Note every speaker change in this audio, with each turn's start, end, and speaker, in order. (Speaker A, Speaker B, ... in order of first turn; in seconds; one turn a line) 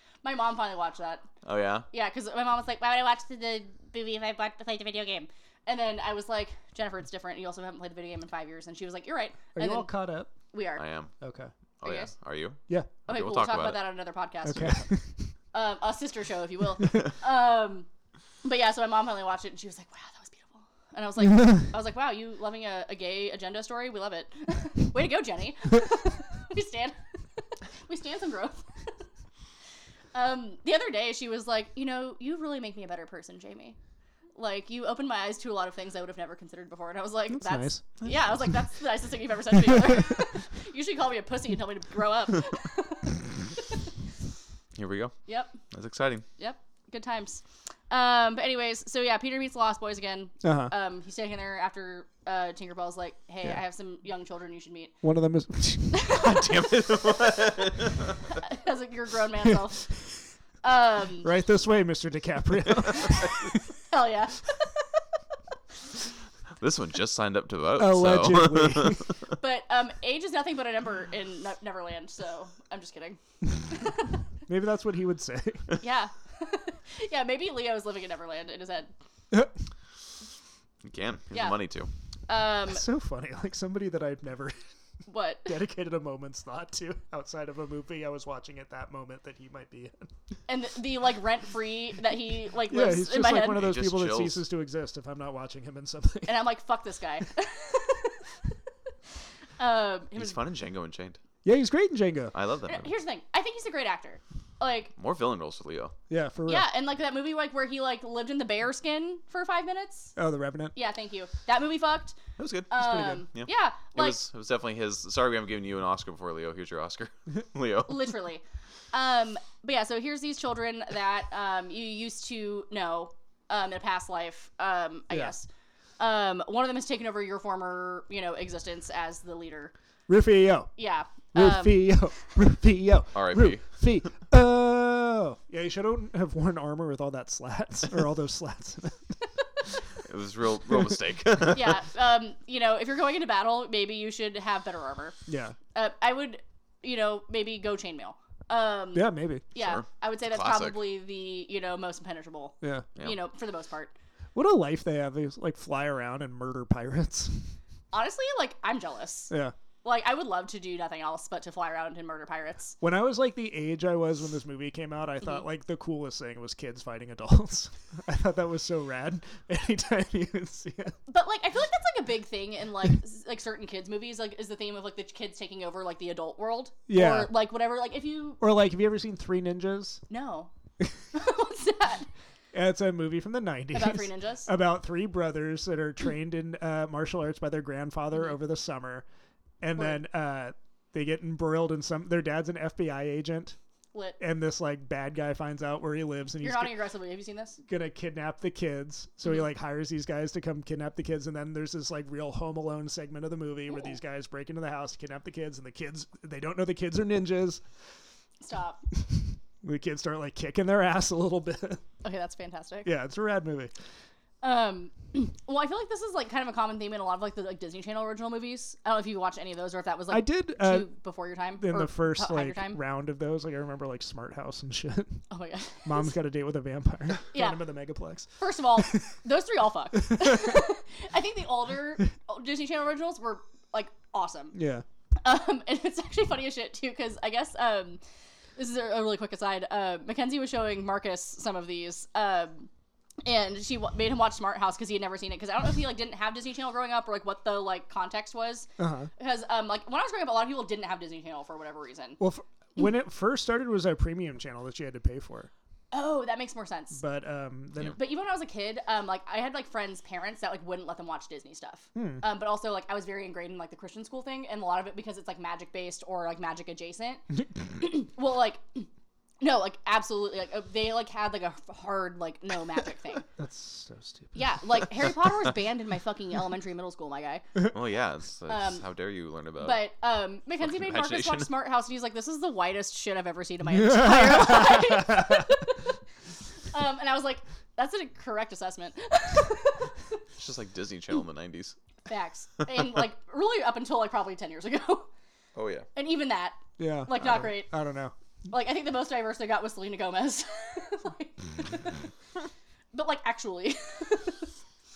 Speaker A: 0.2-1.3
Speaker B: 1.4-1.9
Speaker A: 1.9-9.9
Speaker C: 9.6-10.3
Speaker A: 10.5-10.9
Speaker B: 10.8-11.1
Speaker C: 11.2-11.5
Speaker B: 11.8-13.8
Speaker A: 11.8-12.1
Speaker A: 13.1-14.9
Speaker C: 14.4-15.2
Speaker A: 15.5-17.9
Speaker A: 18.4-27.0
Speaker A: 27.9-28.7
Speaker A: 30.1-33.8
Speaker A: 34.4-43.9
Speaker C: 37.3-37.9
Speaker B: 44.8-46.2
Speaker A: 45.3-45.6
Speaker A: 46.4-55.0
Speaker C: 50.4-50.7
Speaker C: 55.0-56.1
Speaker A: 55.9-56.5
Speaker B: 56.1-58.3
Speaker A: 58.4-59.9
Speaker A: 60.6-61.3
Speaker C: 61.2-63.6
Speaker A: 63.9-64.8
Speaker B: 66.6-69.2
Speaker C: 67.8-69.1
Speaker A: 69.4-74.2
Speaker C: 74.5-75.7
Speaker A: 75.8-78.9
Speaker B: 80.8-81.9
Speaker A: 81.3-81.6
Speaker A: 82.3-82.8
Speaker C: 82.7-84.6
Speaker A: 85.1-85.6
Speaker C: 85.5-90.1
Speaker A: 90.5-93.6
Speaker C: 92.7-96.4
Speaker B: 93.5-94.4
Speaker A: 96.3-98.3
Speaker A: 99.6-100.4
Speaker B: 100.2-101.2
Speaker C: 101.5-102.3
Speaker B: 102.3-102.9
Speaker A: 102.7-104.9
Speaker B: 105.0-105.9
Speaker C: 106.1-106.7
Speaker A: 106.5-110.1
Speaker C: 110.2-110.7
Speaker A: 110.8-112.2
Speaker B: 112.4-118.1
Speaker A: 112.7-114.2
Speaker C: 112.8-113.2
Speaker A: 117.9-125.5
Speaker C: 125.1-125.3
Speaker A: 126.0-129.7
Speaker C: 130.1-130.7
Speaker A: 130.8-132.0
Speaker C: 131.3-139.2
Speaker B: 133.1-133.7
Speaker B: 140.0-141.8
Speaker A: 141.5-145.2
Speaker C: 145.3-145.6
Speaker A: 145.7-153.9
Speaker C: 148.9-149.4
Speaker B: 149.6-150.8
Speaker C: 152.6-152.9
Speaker C: 154.3-157.5
Speaker A: 157.9-159.3
Speaker A: 159.8-162.8
Speaker C: 162.8-171.0
Speaker A: 171.1-178.4
Speaker C: 176.9-177.3
Speaker C: 178.4-180.0
Speaker A: 180.1-180.5
Speaker A: 181.1-182.1
Speaker C: 182.5-189.1
Speaker A: 183.7-184.5
Speaker C: 189.6-193.6
Speaker A: 193.9-194.2
Speaker C: 194.2-196.8
Speaker A: 196.4-197.6
Speaker C: 197.7-207.6
Speaker A: 208.4-208.8
Speaker C: 209.1-211.8
Speaker A: 212.0-212.9
Speaker C: 212.8-213.7
Speaker A: 214.4-222.8
Speaker C: 220.1-220.9
Speaker C: 221.6-225.2
Speaker A: 225.3-226.2
Speaker C: 225.8-229.0
Speaker A: 227.3-227.6
Speaker A: 228.4-234.6
Speaker C: 230.1-230.6
Speaker C: 234.5-234.8
Speaker A: 235.2-238.0
Speaker A: 238.6-242.7
Speaker A: 243.2-252.2
Speaker C: 248.8-249.1
Speaker C: 252.2-255.5
Speaker A: 255.9-257.0
Speaker C: 256.9-258.0
Speaker A: 257.9-268.9
Speaker C: 261.9-262.2
Speaker A: 269.4-273.3
Speaker C: 273.4-274.4
Speaker A: 274.3-277.7
Speaker B: 277.7-279.8
Speaker A: 278.5-278.9
Speaker A: 279.6-285.9
Speaker B: 280.6-281.5
Speaker C: 283.7-285.4
Speaker A: 286.7-290.2
Speaker B: 290.4-291.8
Speaker A: 292.1-295.1
Speaker B: 295.6-295.9
Speaker A: 295.9-297.7
Speaker C: 296.8-298.1
Speaker A: 298.5-301.9
Speaker A: 302.9-304.5